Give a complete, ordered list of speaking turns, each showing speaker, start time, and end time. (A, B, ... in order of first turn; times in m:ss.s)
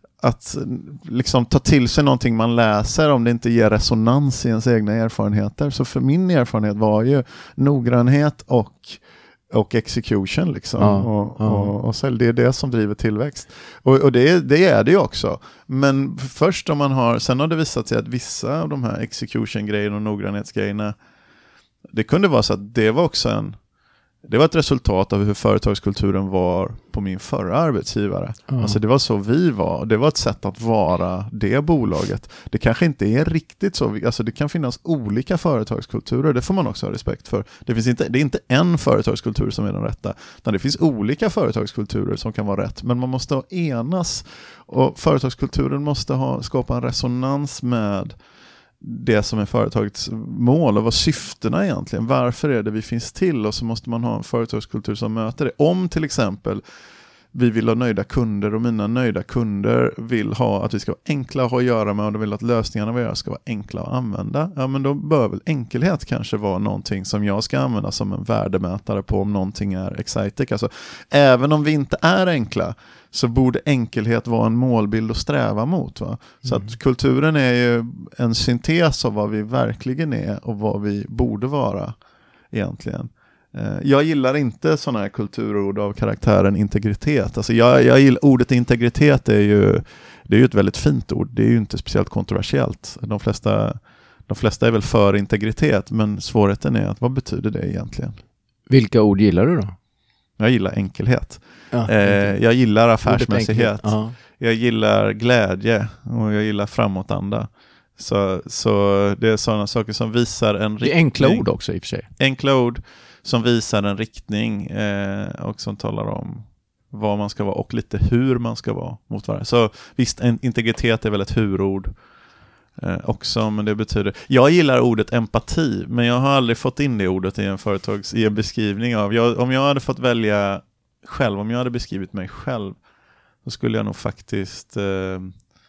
0:00.2-0:21.0 A
0:10.8-0:11.7 B
0:21.9-0:23.6 A
0:24.2-0:48.1 A
0:28.5-0:28.8 B
0:48.8-0:56.6 A
0:57.3-1:21.9 A
1:22.5-1:38.2 A
1:38.7-1:39.7 B
1:40.4-1:51.5 A
1:41.7-1:42.4 B
1:43.0-1:44.2 B
1:50.8-1:52.1 B
1:52.2-2:01.9 A
2:02.8-2:12.8 A
2:13.4-2:15.4 A